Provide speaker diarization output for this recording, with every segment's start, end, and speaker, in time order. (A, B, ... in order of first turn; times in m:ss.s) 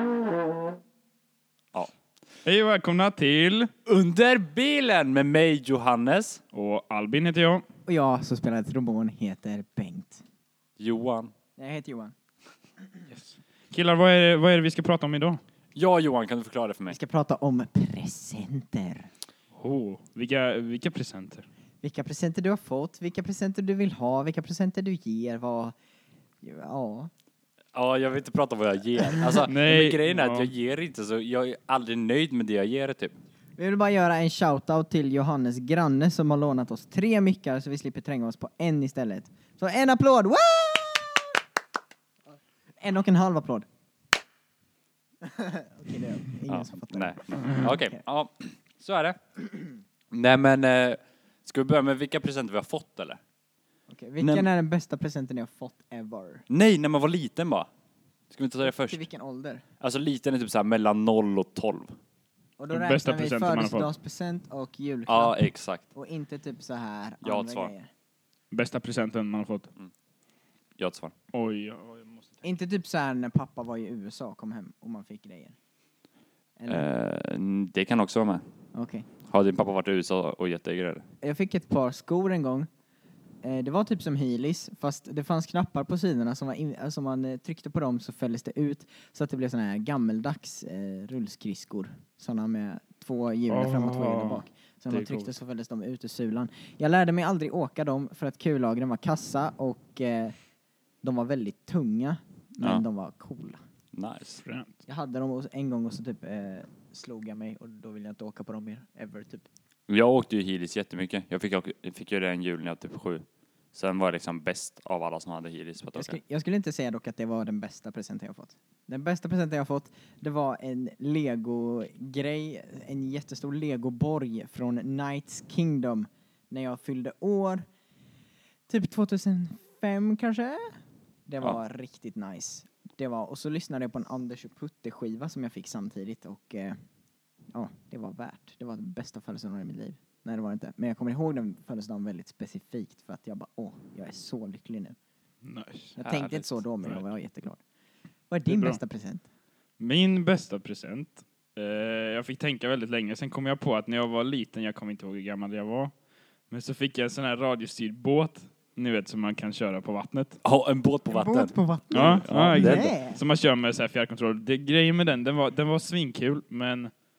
0:02.4-0:03.7 A
0:03.9-0:06.4 B
0:06.5-0:07.6 A
0:07.9-0:10.2 C
0:10.8-0:11.3 B
0:11.6-0:12.1 C
0:13.1-0:15.4 A
0:15.8-0:17.0 B
0:16.9-0:19.1 C
0:19.5-0:21.5 A
0:21.8-0:25.8 C
0:26.4-0:27.1 C
0:27.7-0:33.1 B
0:29.5-0:30.5 A
0:33.6-0:41.4 C
0:42.8-0:43.7 C
0:45.2-0:48.0 C
0:46.5-0:49.2 B
0:50.1-0:53.2 B
0:53.9-0:56.4 C
0:54.2-0:54.5 B
0:56.5-0:57.7 B
0:58.3-0:59.0 B
0:58.9-0:59.6 C
0:59.8-1:02.0 B
1:02.6-1:07.9 C
1:02.7-1:03.9 A
1:05.1-1:05.8 B
1:07.2-1:07.7 B
1:08.5-1:09.7 A
1:10.8-1:11.1 B
1:11.3-1:12.4 A
1:12.4-1:15.6 C
1:16.6-1:16.9 C
1:16.7-1:18.4 B
1:18.7-1:19.1 C
1:19.3-1:21.0 B
1:21.2-1:22.7 C
1:23.4-1:40.3 C
1:33.5-1:35.4 A
1:41.0-1:43.6 C
1:43.9-1:44.4 B
1:44.4-1:44.8 A
1:44.9-1:49.4 C
1:49.9-1:56.2 B
1:56.0-2:07.7 C
2:08.7-2:16.8 C
2:17.5-2:25.0 C
2:25.4-2:27.1 A
2:26.0-2:27.6 C
2:26.0-2:26.4 B
2:28.3-2:29.2 C
2:28.5-2:28.8 A
2:29.8-2:35.9 A
2:36.5-2:40.4 A
2:40.4-2:42.9 B
2:41.1-2:43.2 C
2:41.9-2:47.0 A